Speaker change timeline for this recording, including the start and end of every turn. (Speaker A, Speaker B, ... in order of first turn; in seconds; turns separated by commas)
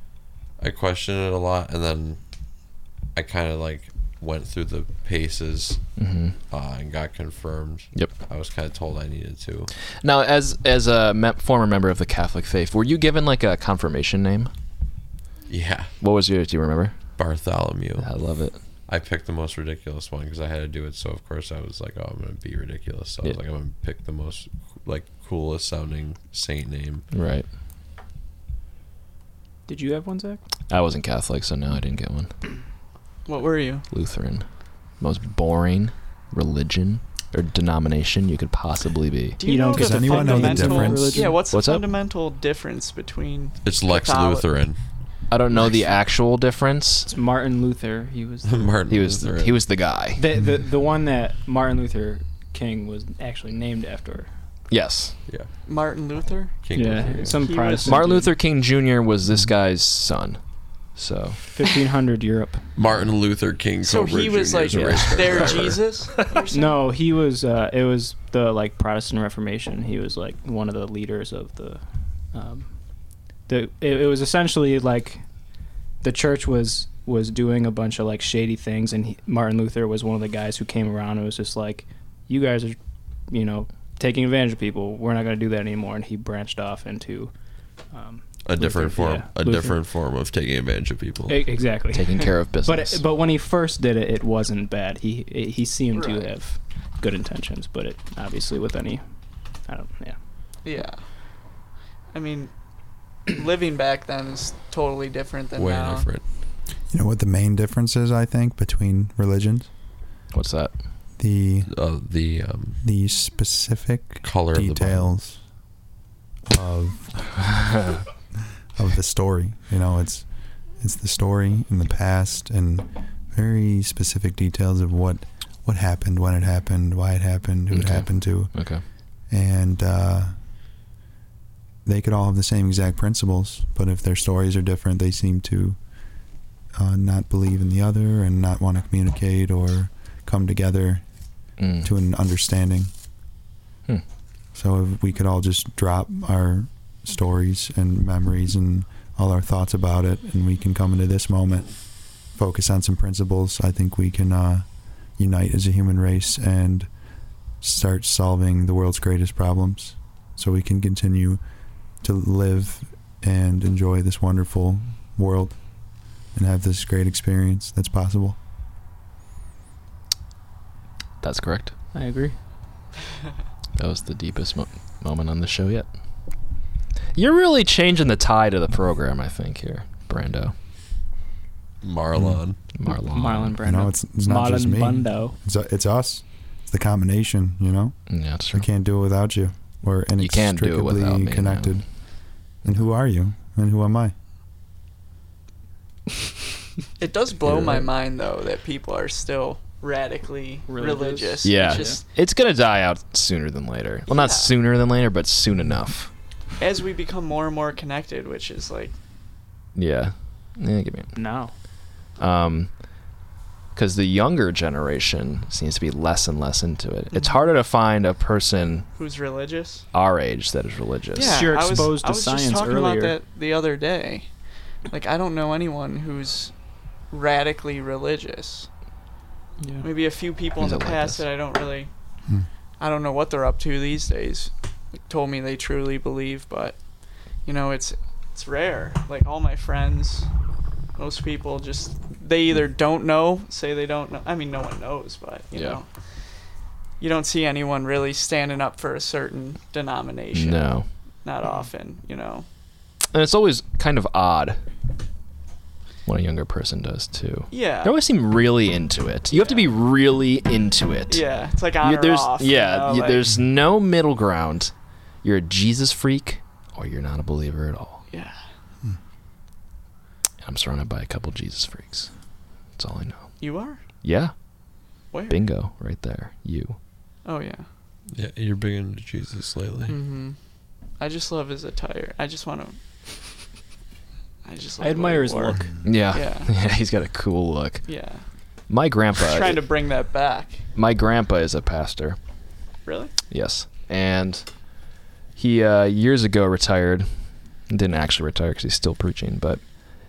Speaker A: 0.6-2.2, Speaker A: 3.1-5.8, Speaker B: 6.0-6.4, Speaker A: 6.5-9.7, Speaker B: 10.0-14.5, Speaker A: 15.5-15.9, Speaker B: 16.0-16.9, Speaker A: 17.2-18.1, Speaker B: 18.0-18.6, Speaker A: 18.9-27.1, Speaker B: 27.1-27.4, Speaker C: 29.7-30.4, Speaker B: 30.7-32.3, Speaker D: 33.2-33.8, Speaker B: 33.9-34.5, Speaker B: 35.0-39.4, Speaker D: 39.4-44.5, Speaker C: 39.4-41.4, Speaker E: 39.7-41.3, Speaker B: 41.5-41.9, Speaker A: 43.6-44.8, Speaker B: 45.3-47.1, Speaker C: 47.1-48.8, Speaker A: 48.4-49.6, Speaker B: 48.9-50.2, Speaker C: 50.1-54.3, Speaker B: 54.7-55.1, Speaker D: 55.6-56.5, Speaker A: 56.6-57.4, Speaker C: 56.7-58.3, Speaker D: 57.3-58.2, Speaker B: 57.8-60.4, Speaker B: 60.9-61.4, Speaker C: 61.5-62.6, Speaker A: 62.8-65.8, Speaker D: 63.8-66.9, Speaker B: 64.7-65.8, Speaker C: 66.5-71.8, Speaker C: 72.3-72.7, Speaker C: 73.5-75.2, Speaker C: 76.0-82.8, Speaker C: 83.3-87.3, Speaker C: 87.9-89.8, Speaker A: 88.4-91.5, Speaker C: 91.3-99.0, Speaker B: 91.9-93.0, Speaker D: 95.9-96.3, Speaker C: 99.7-100.2, Speaker D: 100.6-101.0, Speaker D: 102.1-102.5, Speaker D: 103.3-106.1, Speaker A: 105.5-106.2, Speaker E: 106.9-109.7, Speaker B: 110.3-110.7, Speaker E: 111.2-111.7, Speaker A: 111.7-112.8, Speaker E: 112.8-115.4, Speaker A: 114.2-115.1, Speaker E: 116.5-117.5, Speaker E: 118.8-130.3, Speaker B: 127.7-128.8, Speaker E: 131.8-135.8, Speaker E: 136.7-141.0, Speaker B: 141.6-141.9, Speaker E: 141.8-142.9, Speaker E: 144.5-156.9, Speaker E: 157.6-161.4, Speaker E: 162.0-168.4, Speaker B: 171.2-171.7, Speaker C: 171.9-172.3, Speaker B: 173.8-175.9, Speaker B: 177.1-180.5, Speaker A: 181.8-182.6, Speaker B: 182.7-183.6, Speaker C: 183.0-185.4, Speaker E: 183.6-191.8, Speaker B: 188.1-188.7, Speaker B: 190.2-191.8, Speaker E: 192.6-194.1, Speaker D: 197.0-202.0, Speaker B: 197.4-197.9, Speaker C: 200.7-202.0, Speaker B: 201.4-206.1, Speaker D: 204.1-204.5, Speaker D: 206.6-208.9, Speaker B: 209.7-211.2, Speaker C: 211.1-211.5, Speaker B: 212.2-212.7, Speaker B: 213.7-218.9, Speaker D: 217.1-217.4, Speaker D: 218.9-219.8, Speaker B: 219.9-221.9, Speaker D: 221.1-224.3, Speaker C: 221.2-223.2, Speaker D: 224.9-226.5, Speaker D: 227.1-228.7, Speaker C: 229.6-229.9, Speaker D: 229.8-231.9, Speaker B: 230.6-231.2, Speaker D: 232.8-234.5, Speaker D: 235.0-236.8, Speaker D: 237.4-240.3, Speaker D: 240.9-245.9, Speaker B: 245.5-245.8, Speaker D: 247.0-250.7, Speaker B: 250.3-250.9, Speaker D: 251.2-252.4, Speaker B: 253.1-254.6, Speaker B: 256.1-261.2, Speaker D: 257.5-257.9, Speaker D: 259.3-259.7, Speaker D: 261.1-263.2, Speaker B: 261.8-264.7, Speaker B: 265.2-268.0, Speaker D: 268.1-268.4, Speaker B: 270.4-272.1, Speaker B: 272.8-273.3, Speaker D: 273.4-273.8, Speaker B: 274.0-274.3, Speaker D: 275.1-275.4, Speaker B: 275.3-276.8, Speaker D: 277.2-277.6, Speaker A: 278.1-279.9, Speaker D: 279.9-280.4, Speaker D: 281.0-282.8, Speaker D: 284.4-285.6, Speaker C: 284.8-285.8, Speaker B: 285.8-287.9, Speaker D: 286.1-286.5, Speaker D: 287.9-288.2, Speaker B: 288.7-289.7, Speaker D: 289.2-290.6, Speaker B: 290.7-292.2, Speaker D: 292.8-293.1, Speaker B: 293.3-294.5, Speaker B: 295.4-297.1, Speaker B: 297.7-299.6